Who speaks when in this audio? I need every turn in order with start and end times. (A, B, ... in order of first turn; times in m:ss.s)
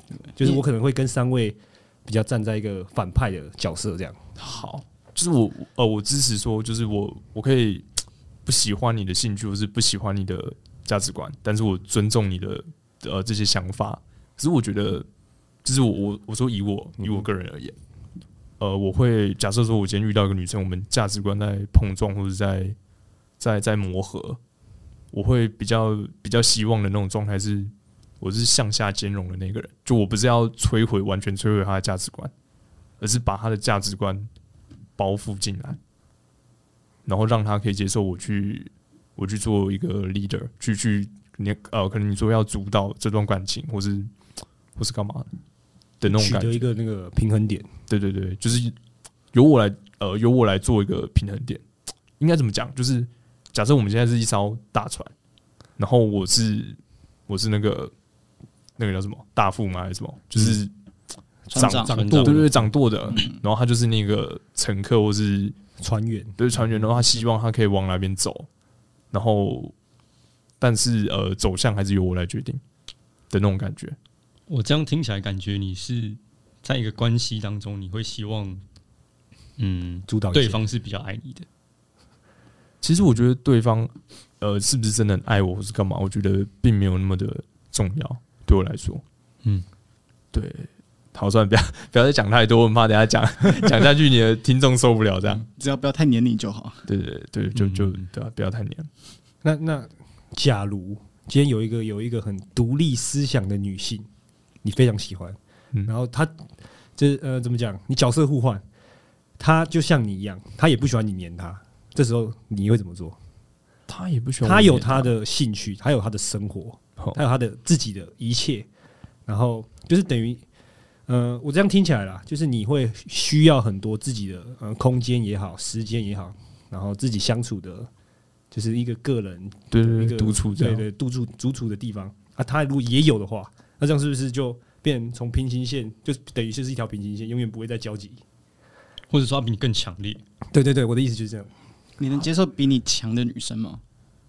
0:00.4-0:04.2 A
0:04.4-0:07.9 B
0:08.4-0:15.1 B
0:15.6-0:17.8 B
0:18.6-0:22.8 B
0:23.4-0:24.4 B
0:25.1-0:32.3 B
0:33.0-0:34.3 B
0:35.0-0:35.8 B
0:37.1-0:44.1 B
0:44.8-0:45.3 B
0:46.0-0:46.7 B
0:46.0-0:47.7 A
0:47.9-0:48.8 B
0:49.3-0:51.6 B
0:52.2-0:55.1 B
0:55.8-0:57.9 B
0:58.8-1:00.7 B
1:01.5-1:02.7 A
1:01.5-1:02.3 C
1:01.6-1:05.6 B
1:01.9-1:02.5 D
1:03.1-1:03.4 C
1:05.8-1:06.4 A
1:06.4-1:08.5 B
1:09.1-1:09.7 B
1:10.6-1:12.6 B
1:13.3-1:14.0 B
1:14.5-1:18.6 D
1:19.6-1:21.5 D
1:20.1-1:20.6 A
1:22.8-1:29.0 B
1:30.3-1:35.5 B
1:35.5-1:36.9 C
1:36.9-1:38.9 B
1:37.6-1:38.0 D
1:39.4-1:44.1 A
1:44.6-1:48.6 A
1:49.4-1:53.2 A
1:53.9-1:55.2 B
1:54.4-1:58.7 A
1:59.3-2:00.4 A
2:01.1-2:07.9 A
2:08.5-2:18.2 A
2:09.7-2:10.9 B
2:19.1-2:20.2 D
2:20.5-2:21.5 A
2:22.0-2:23.8 C